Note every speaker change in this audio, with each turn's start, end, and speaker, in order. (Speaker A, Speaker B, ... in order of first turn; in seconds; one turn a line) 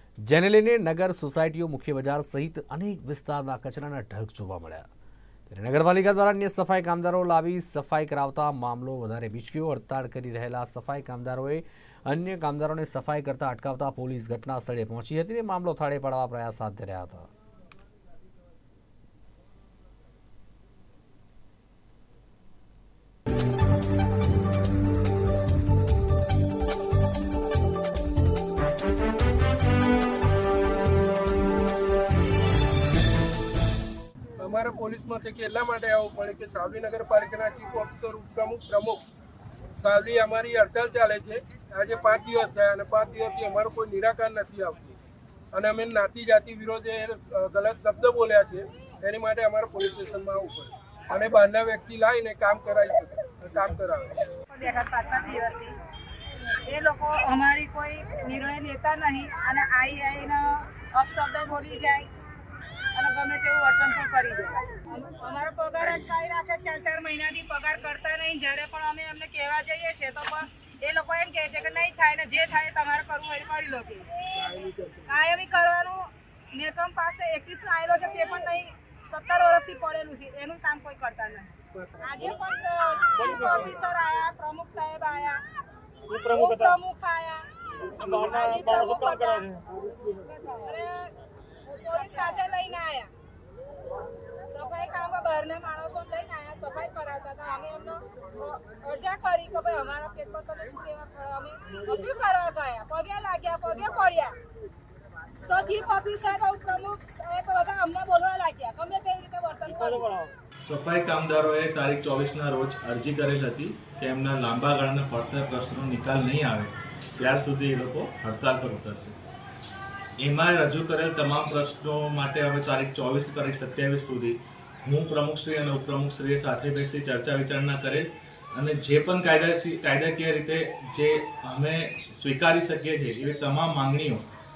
Speaker A: 0.2-4.9
Speaker A: 5.5-17.3
Speaker B: 34.4-39.0
Speaker B: 39.8-44.9
Speaker B: 45.5-54.2
Speaker C: 54.5-55.8
Speaker C: 56.7-62.1
Speaker C: 62.9-85.4
Speaker B: 74.6-74.9
Speaker C: 86.1-89.6
Speaker C: 90.1-91.1
Speaker C: 91.7-93.1
Speaker C: 94.5-104.3
Speaker C: 105.5-110.1
Speaker D: 110.6-119.2
Speaker D: 120.2-134.2